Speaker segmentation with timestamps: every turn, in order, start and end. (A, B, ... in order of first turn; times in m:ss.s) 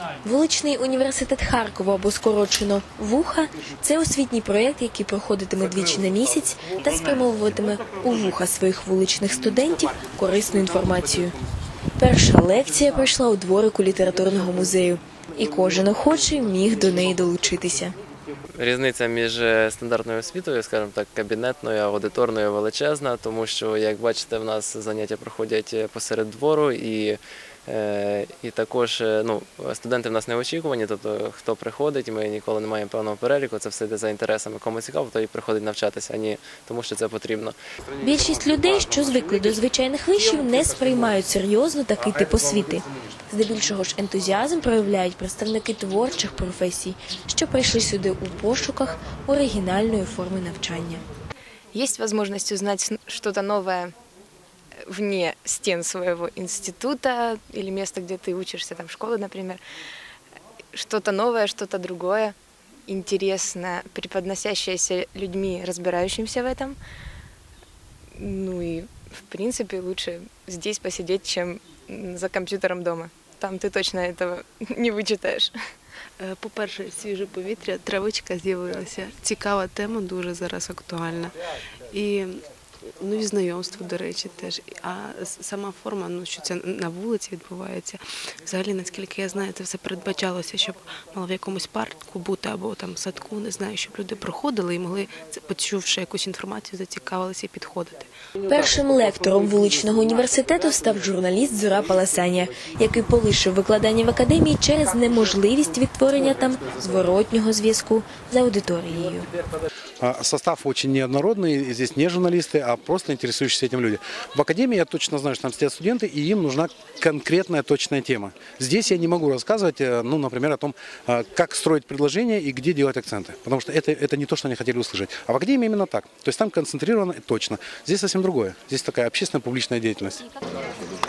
0:00.2-0:11.3 A
0:12.0-0:17.9 A
0:18.6-0:37.6 B
0:38.0-0:51.0 A
0:51.7-0:53.9 C
0:54.9-0:59.6 C
1:00.7-1:02.3 C
1:02.9-1:06.8 C
1:08.2-1:15.5 C
1:16.2-1:21.4 D
1:21.9-1:22.4 D
1:23.0-1:38.1 D
1:38.4-1:49.3 A
1:50.0-2:10.2 E